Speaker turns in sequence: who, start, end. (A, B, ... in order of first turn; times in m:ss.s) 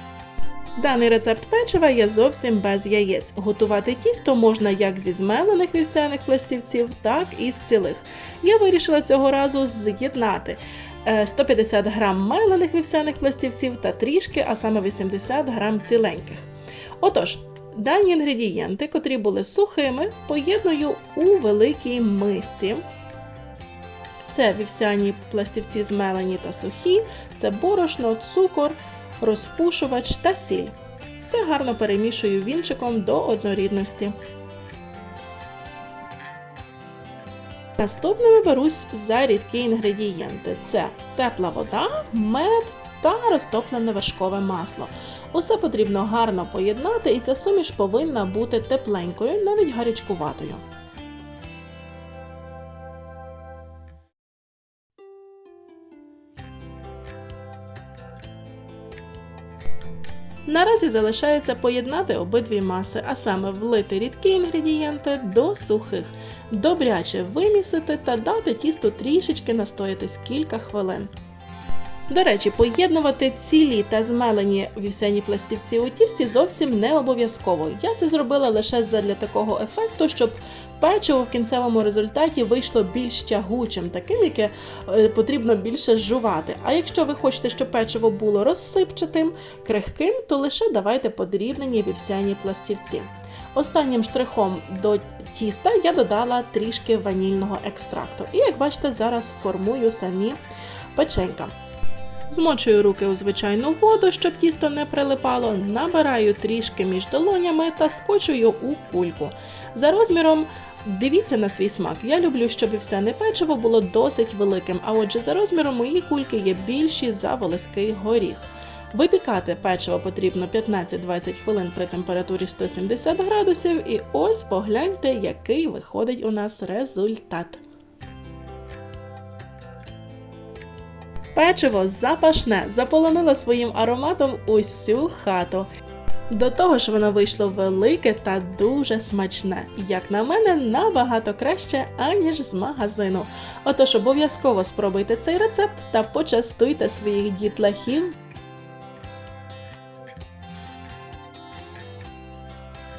0:00.8-0:16.5 A
0:17.0-0:22.8 A
0:24.3-0:34.1 A
0:37.8-0:50.6 A
1:00.4-1:11.1 A
1:12.1-1:40.4 A
1:40.9-1:41.5 A
1:42.3-2:07.6 A
2:11.3-2:15.7 A
2:16.3-2:28.2 A